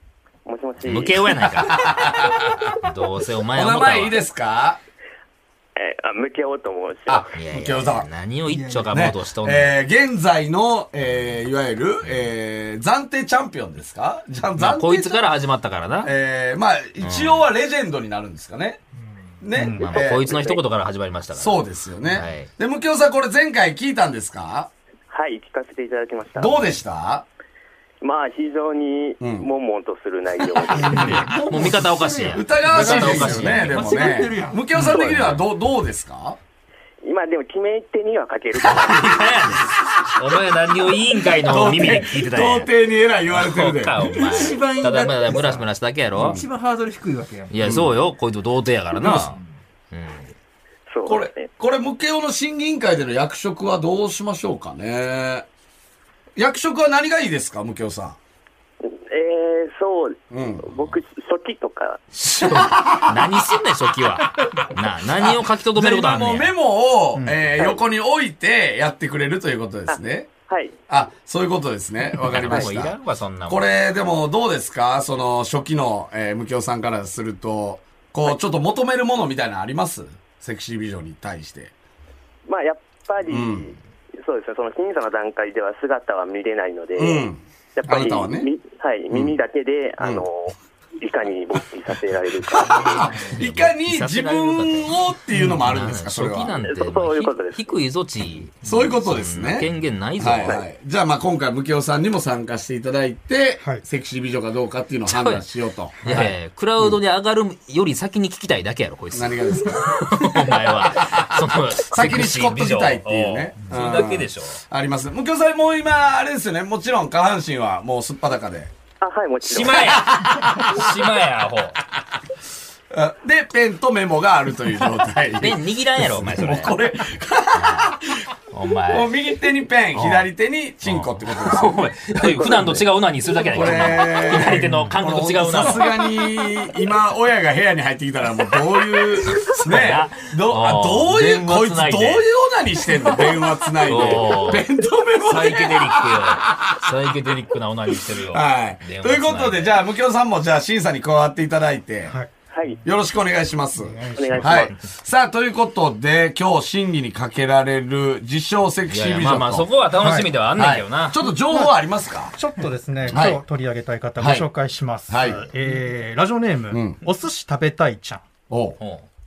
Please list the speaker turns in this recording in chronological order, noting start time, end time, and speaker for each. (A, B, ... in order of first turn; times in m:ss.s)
0:00.4-0:01.6 A
0:00.8-0:02.0 B
0:01.6-0:02.8 C
0:02.8-0:04.2 B
0:03.5-0:04.8 C
0:05.8-0:07.3 A
0:07.1-0:08.1 C
0:07.3-0:09.7 B
0:08.5-0:08.9 D
0:08.9-0:15.2 C
0:14.6-0:16.1 B
0:16.0-0:18.8 C
0:17.0-0:17.5 B
0:19.4-0:20.6 C
0:19.5-0:19.9 E
0:19.8-0:22.5 B
0:21.4-0:24.7 C
0:25.1-0:26.7 A
0:26.4-0:27.2 C
0:28.0-0:31.3 A
0:29.2-0:29.5 C
0:30.6-0:31.7 C
0:30.7-0:35.0 D
0:30.9-0:34.2 B
0:32.3-0:36.4 C
0:34.8-0:35.4 B
0:34.9-0:35.3 A
0:37.0-0:39.6 A
0:38.6-0:42.7 B
0:39.6-0:40.1 C
0:41.3-0:44.9 C
0:43.3-0:46.4 B
0:44.0-0:45.6 D
0:46.1-0:46.4 C
0:46.2-0:47.7 D
0:47.5-0:49.4 B
0:47.6-0:48.0 C
0:49.0-0:49.3 C
0:49.0-0:49.5 D
0:49.9-0:50.3 B
0:50.9-0:51.5 A
0:51.0-0:55.4 C
0:56.4-0:58.2 C
0:58.8-1:02.0 A
1:00.3-1:00.7 C
1:02.2-1:06.5 B
1:02.2-1:03.3 C
1:05.1-1:10.3 C
1:09.9-1:10.7 A
1:10.9-1:21.7 C
1:12.2-1:13.6 B
1:22.5-1:33.1 A
1:23.3-1:23.7 C
1:27.0-1:28.5 C
1:29.1-1:29.4 C
1:30.0-1:30.2 C
1:32.5-1:36.6 C
1:32.7-1:40.6 B
1:36.6-1:37.6 A
1:38.6-1:47.0 C
1:45.1-1:45.4 B
1:46.0-1:54.6 B
1:49.1-1:58.7 C
1:59.0-2:00.1 A
1:59.4-2:01.8 B
1:59.9-2:00.9 C
2:02.9-2:08.3 C
2:05.4-2:06.8 B
2:07.5-2:08.0 B
2:08.5-2:09.1 B
2:08.9-2:11.7 C
2:09.9-2:10.3 B
2:10.8-2:16.0 B
2:12.2-2:12.8 A
2:13.4-2:13.9 A
2:13.5-2:26.9 C
2:19.2-2:22.2 B
2:23.8-2:24.7 B
2:25.2-2:29.8 B
2:28.3-2:32.1 C
2:32.5-2:32.8 A
2:32.8-2:39.7 C
2:33.8-2:34.6 E
2:34.1-2:34.7 A
2:38.9-2:41.2 B
2:40.0-2:40.3 E
2:40.6-2:42.3 C
2:41.4-2:41.7 E
2:42.4-2:48.2 E
2:43.1-2:43.4 C
2:44.2-2:44.5 C
2:45.1-2:45.5 C
2:46.7-2:47.0 C
2:48.5-2:48.8 C
2:48.8-2:49.0 B